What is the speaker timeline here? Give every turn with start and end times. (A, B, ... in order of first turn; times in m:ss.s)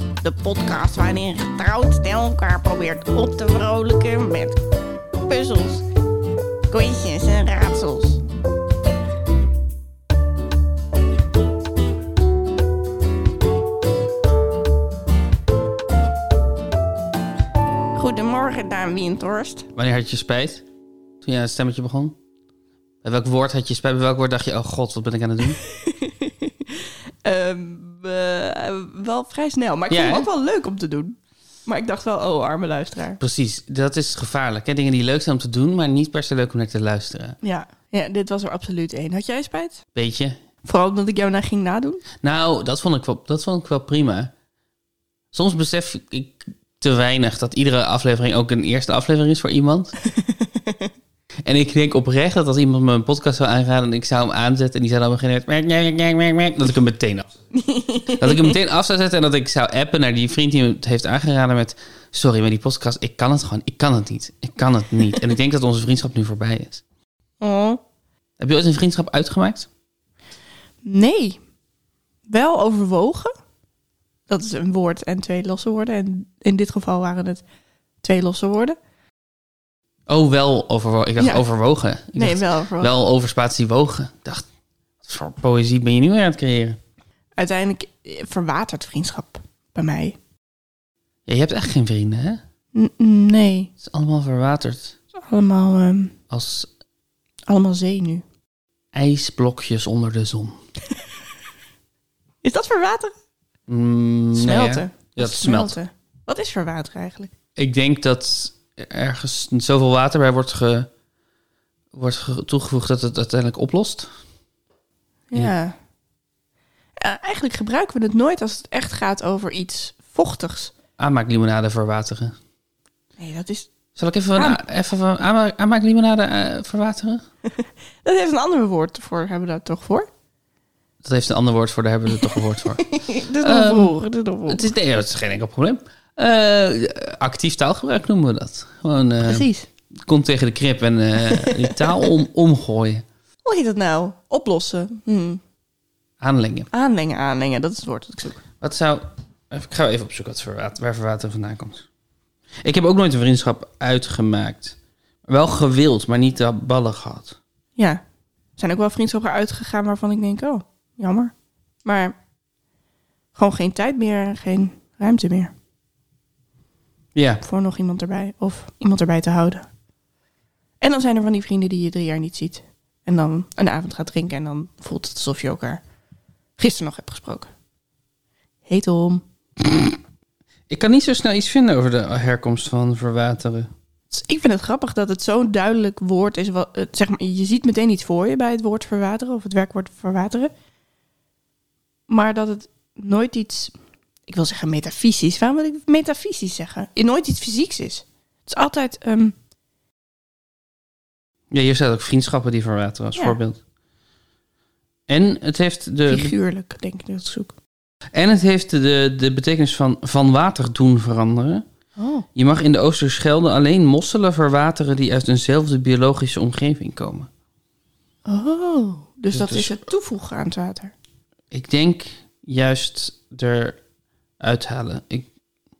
0:00.2-0:04.6 A
0:05.2-0:05.9 A
0:06.7-0:08.2 A
0:18.0-0:19.7 A
0:19.8-0:20.6 B
0:21.2-0:22.2 B
0:23.0-0:25.6 B
0:25.6-0:33.2 A
0:29.9-0:30.3 B
0:33.2-0:37.4 B
0:37.4-0:39.8 A
0:40.0-0:40.4 B
0:40.6-0:42.0 A
0:42.2-0:44.3 B
0:45.3-0:50.0 B
0:50.1-0:50.9 A
0:51.4-0:57.3 B
0:57.5-0:58.6 A
0:58.1-1:06.8 B
1:07.4-1:07.8 A
1:08.4-1:09.7 B
1:10.8-1:11.4 A
1:12.3-1:13.3 A
1:14.3-1:17.4 A
1:18.0-1:18.8 A
1:20.1-1:24.4 B
1:21.2-1:21.4 A
1:22.2-1:22.9 A
1:25.0-1:26.8 B
1:27.4-1:30.2 A
1:31.3-1:32.4 B
1:32.7-1:33.7 A
1:33.8-1:35.0 B
1:35.1-1:36.2 A
1:36.3-1:36.7 B
1:37.5-1:38.2 A
1:38.9-1:40.6 B
1:42.4-1:43.1 A
1:43.7-1:45.8 B
1:44.3-1:47.3 A
1:47.6-1:50.9 B
1:51.9-1:54.1 B
1:55.3-1:55.8 A
1:57.0-2:00.7 A
2:01.0-2:02.4 B
2:03.2-2:03.7 A
2:04.0-2:07.2 B
2:07.4-2:10.1 A
2:11.0-2:13.9 B
2:12.1-2:14.6 A
2:14.5-2:19.5 B
2:19.2-2:19.7 A
2:20.1-2:23.0 B
2:21.2-2:22.0 A
2:23.4-2:25.4 A
2:26.2-2:26.7 B
2:26.7-2:28.4 A
2:28.6-2:31.9 B
2:32.6-2:37.4 B
2:37.8-2:38.0 A
2:38.6-2:41.3 A
2:41.8-2:42.2 A
2:43.4-2:45.5 A
2:47.2-2:47.4 B
2:47.4-2:49.7 A
2:50.8-2:55.8 A
2:56.6-2:57.5 A
2:58.7-2:59.2 A
2:59.6-3:00.0 B
3:00.7-3:03.7 B
3:04.1-3:10.5 A
3:12.1-3:13.7 A
3:14.3-3:19.4 A
3:21.5-3:23.6 B
3:25.1-3:26.3 B
3:26.1-3:27.5 A
3:28.1-3:31.6 B
3:32.0-3:32.3 A
3:32.4-3:37.3 B
3:38.3-3:40.9 A
3:39.3-3:39.8 B
3:41.5-3:43.8 B
3:44.4-3:45.3 B